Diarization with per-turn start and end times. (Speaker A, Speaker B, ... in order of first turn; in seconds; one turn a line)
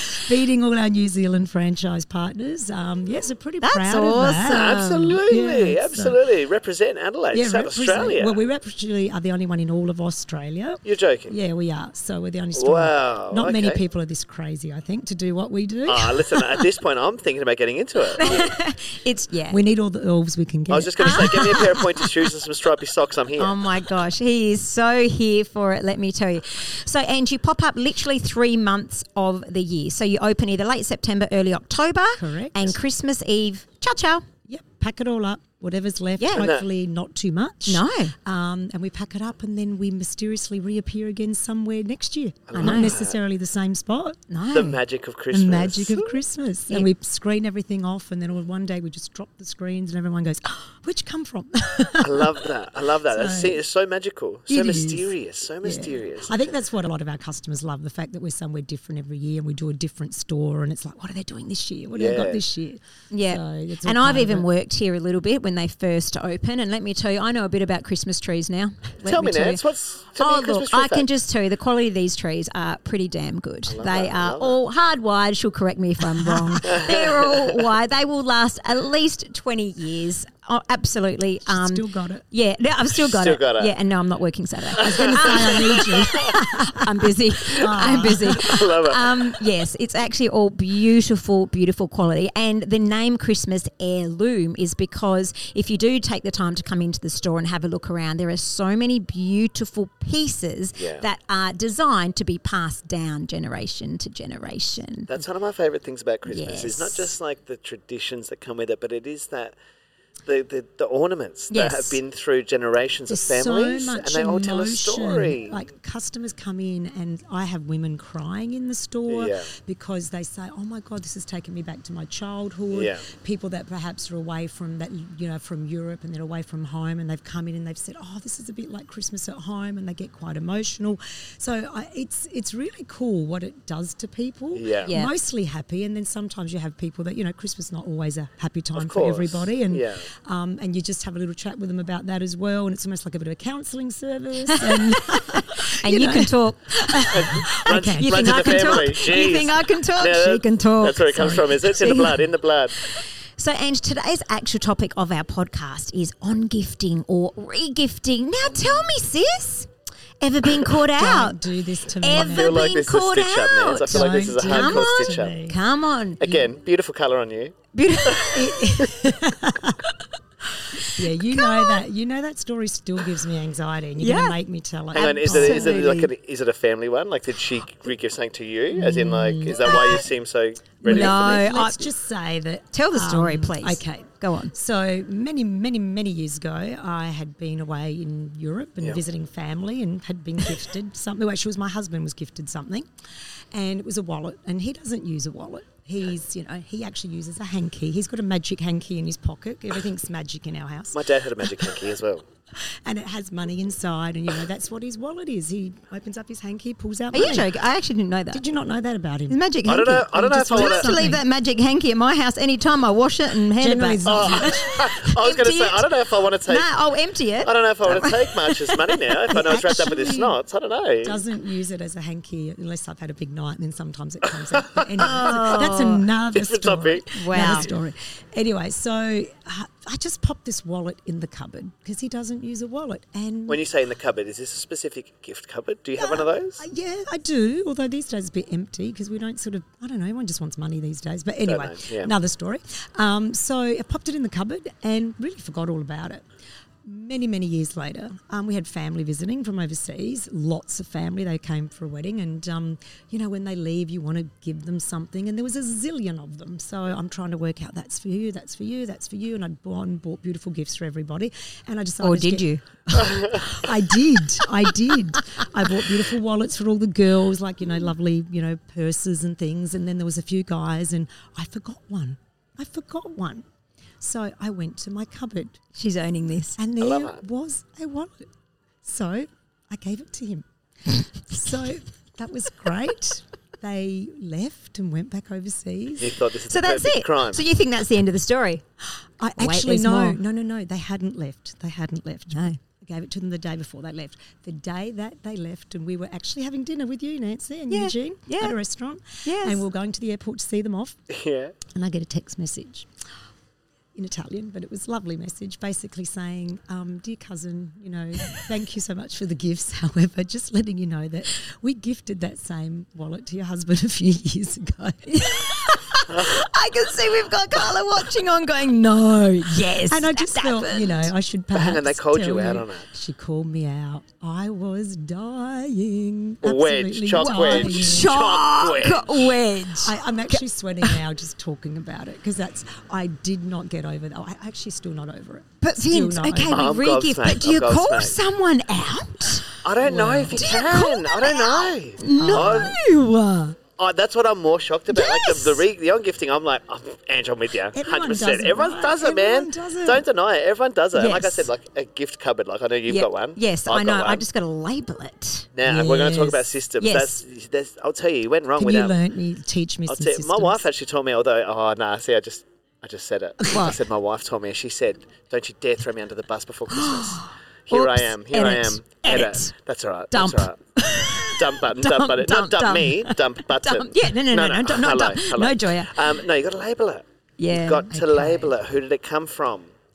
Speaker A: 0.2-6.2
Speaker B: 3.6-4.8
Speaker C: 4.4-8.4
Speaker A: 7.3-16.6
Speaker C: 10.8-11.4
Speaker C: 12.6-13.8
Speaker C: 15.9-18.5
Speaker A: 18.2-18.5
Speaker B: 18.2-19.6
Speaker A: 19.5-21.9
Speaker C: 20.7-23.6
Speaker B: 21.0-21.6
Speaker B: 23.4-34.2
Speaker A: 32.1-32.8
Speaker A: 34.5-44.2
Speaker B: 36.2-36.5
Speaker C: 36.4-36.6
Speaker B: 37.7-38.1
Speaker C: 42.5-43.2
Speaker B: 42.6-43.0
Speaker B: 44.3-44.8
Speaker C: 44.5-46.2
Speaker A: 45.3-52.5
Speaker C: 52.0-56.6
Speaker A: 53.1-53.6
Speaker A: 54.5-64.5
Speaker C: 61.9-62.4
Speaker B: 63.1-69.6
Speaker C: 69.0-71.1
Speaker B: 70.2-105.1
Speaker C: 73.7-74.6
Speaker A: 76.2-76.7
Speaker C: 76.6-77.6
Speaker A: 81.5-82.2
Speaker C: 83.0-83.8
Speaker C: 84.8-86.3
Speaker A: 84.8-88.5
Speaker C: 87.6-89.3
Speaker C: 100.8-101.0
Speaker C: 105.1-109.6
Speaker B: 106.3-107.1
Speaker C: 110.3-115.6
Speaker B: 111.5-112.0
Speaker A: 113.1-148.8
Speaker C: 119.1-119.5
Speaker C: 122.7-123.0
Speaker C: 134.5-134.9
Speaker B: 134.9-135.1
Speaker C: 138.8-140.1
Speaker B: 144.5-152.2
Speaker C: 147.1-152.8
Speaker B: 153.4-159.7
Speaker B: 160.2-161.4
Speaker A: 160.8-162.7
Speaker B: 162.0-166.4
Speaker C: 162.1-165.4
Speaker A: 163.9-165.6
Speaker C: 166.2-168.4
Speaker B: 167.7-168.6
Speaker A: 168.3-169.8
Speaker B: 170.9-171.8
Speaker A: 170.9-176.1
Speaker B: 174.0-174.4
Speaker C: 174.9-181.5
Speaker B: 174.9-176.0
Speaker A: 178.8-180.0
Speaker A: 180.8-192.9
Speaker B: 180.8-181.9
Speaker B: 182.7-184.5
Speaker A: 193.5-201.8
Speaker C: 200.9-202.2
Speaker A: 202.8-207.5
Speaker B: 207.1-208.4
Speaker A: 208.3-209.4
Speaker B: 209.3-215.9
Speaker C: 209.7-211.0
Speaker A: 210.1-211.2
Speaker A: 213.6-214.7
Speaker C: 214.1-216.7
Speaker B: 216.5-219.3
Speaker C: 217.4-221.2
Speaker A: 219.3-220.4
Speaker A: 221.0-233.6
Speaker C: 224.6-225.6
Speaker B: 225.0-226.0
Speaker C: 226.3-227.7
Speaker B: 227.2-227.7
Speaker C: 233.5-236.6
Speaker A: 236.0-246.2
Speaker C: 241.4-242.1
Speaker A: 246.8-273.4
Speaker B: 262.0-262.6
Speaker C: 263.0-263.3
Speaker A: 274.0-275.6
Speaker B: 275.8-276.6
Speaker A: 276.6-278.3
Speaker C: 276.8-277.2
Speaker A: 278.8-280.4
Speaker A: 281.3-286.2
Speaker C: 286.0-287.4
Speaker B: 286.5-288.6
Speaker A: 289.2-301.0
Speaker B: 289.4-290.2
Speaker B: 292.3-292.6
Speaker B: 297.7-298.6
Speaker B: 299.2-299.6
Speaker C: 301.1-301.6
Speaker A: 301.7-302.9
Speaker A: 303.9-315.6
Speaker B: 315.3-321.1
Speaker C: 316.1-316.4
Speaker A: 319.9-328.1
Speaker C: 321.5-322.9
Speaker C: 326.4-329.4
Speaker B: 327.2-329.9
Speaker A: 329.8-336.7
Speaker B: 335.6-339.4
Speaker C: 336.5-338.2
Speaker C: 339.6-342.7
Speaker A: 339.8-340.4
Speaker B: 340.3-343.6
Speaker A: 342.2-342.8
Speaker C: 343.8-354.2
Speaker B: 344.9-345.6
Speaker A: 347.7-350.0
Speaker B: 350.9-351.5
Speaker B: 352.9-355.5
Speaker C: 355.6-358.9
Speaker A: 355.6-356.4
Speaker B: 356.8-357.2
Speaker A: 358.6-360.6
Speaker C: 359.9-370.6
Speaker B: 366.8-369.5
Speaker B: 370.1-375.9
Speaker C: 371.2-379.7
Speaker B: 377.4-377.9
Speaker A: 377.9-378.5